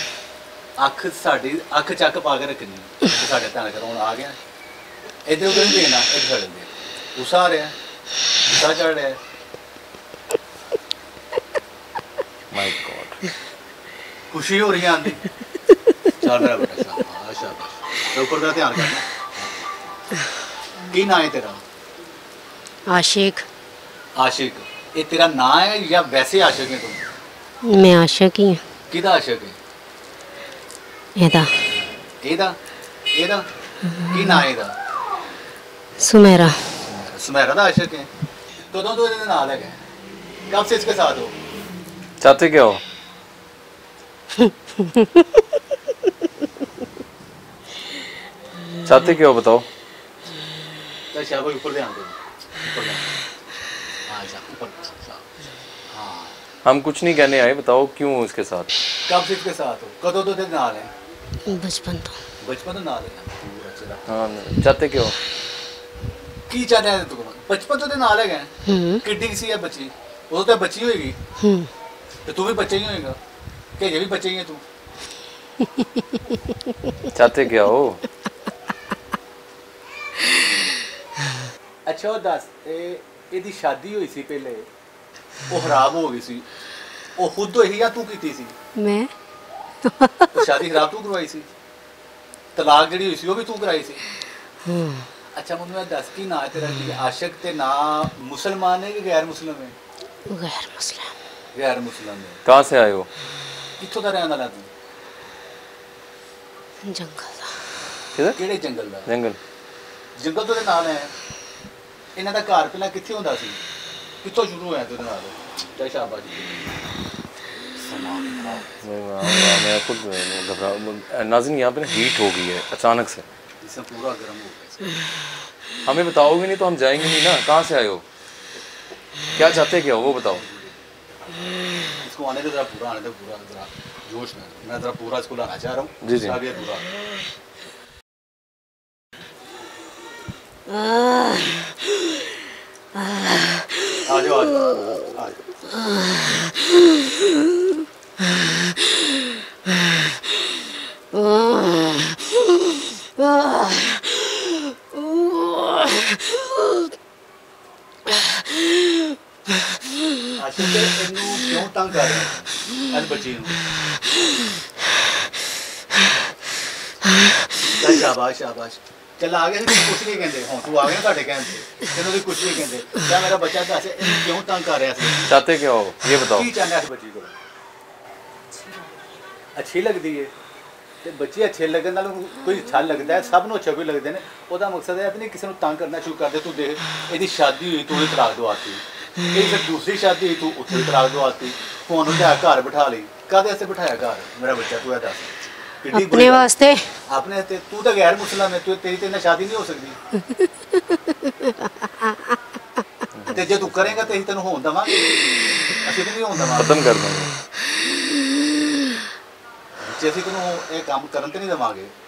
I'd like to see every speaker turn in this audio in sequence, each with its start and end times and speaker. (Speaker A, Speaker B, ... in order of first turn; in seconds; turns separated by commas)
Speaker A: 0.8-4.4, Speaker A: 5.3-7.7, Speaker A: 8.4-9.2, Speaker B: 12.5-13.2, Speaker A: 14.3-15.2, Speaker A: 16.2-19.7, Speaker A: 20.8-21.6, Speaker C: 22.9-23.5, Speaker A: 24.2-27.1, Speaker C: 27.6-28.6, Speaker A: 28.9-29.6, Speaker C: 31.2-31.5, Speaker A: 32.2-32.6, Speaker A: 33.1-33.5, Speaker C: 33.9-34.4, Speaker A: 34.1-34.8, Speaker C: 36.0-36.6, Speaker A: 36.9-38.1, Speaker A: 38.7-39.8, Speaker A: 40.5-41.3, Speaker B: 42.2-42.8, Speaker C: 44.4-45.3, Speaker B: 48.9-49.6, Speaker A: 51.1-53.2, Speaker A: 54.0-55.3, Speaker A: 55.9-56.4, Speaker B: 56.6-58.7, Speaker A: 59.1-60.9, Speaker C: 61.5-62.2, Speaker A: 62.4-64.1, Speaker B: 64.1-65.2, Speaker A: 66.5-68.5, Speaker C: 68.7-69.0, Speaker A: 69.0-71.2, Speaker C: 71.4-71.7, Speaker A: 72.3-73.2, Speaker A: 73.8-74.6, Speaker C: 75.6-76.4, Speaker B: 77.1-78.0, Speaker A: 81.9-84.7, Speaker A: 85.5-86.5, Speaker A: 87.2-88.5, Speaker C: 88.8-89.1, Speaker C: 89.8-90.4, Speaker A: 90.3-91.5, Speaker A: 92.5-94.0, Speaker C: 94.7-95.1, Speaker A: 95.3-99.7, Speaker C: 100.3-101.2, Speaker A: 101.5-102.4, Speaker B: 102.5-103.1, Speaker A: 103.8-104.7, Speaker C: 106.8-107.6, Speaker B: 108.2-108.4, Speaker A: 108.3-109.1, Speaker B: 109.1-109.4, Speaker A: 110.2-111.1, Speaker A: 112.2-113.6, Speaker A: 114.2-116.9, Speaker A: 117.8-118.8, Speaker B: 118.8-123.2, Speaker A: 123.6-125.0, Speaker B: 125.8-128.0, Speaker B: 129.3-130.5, Speaker A: 130.3-130.8, Speaker A: 131.9-136.9, Speaker B: 136.0-136.4, Speaker A: 144.0-145.4, Speaker A: 160.3-163.6, Speaker A: 167.7-175.4, Speaker B: 175.3-176.5, Speaker A: 176.2-177.3, Speaker A: 179.6-180.3, Speaker A: 181.0-196.5, Speaker C: 195.9-196.9, Speaker A: 197.1-200.0, Speaker C: 200.4-202.4, Speaker B: 203.1-204.0, Speaker A: 203.3-206.8, Speaker B: 206.6-207.3, Speaker A: 209.8-211.9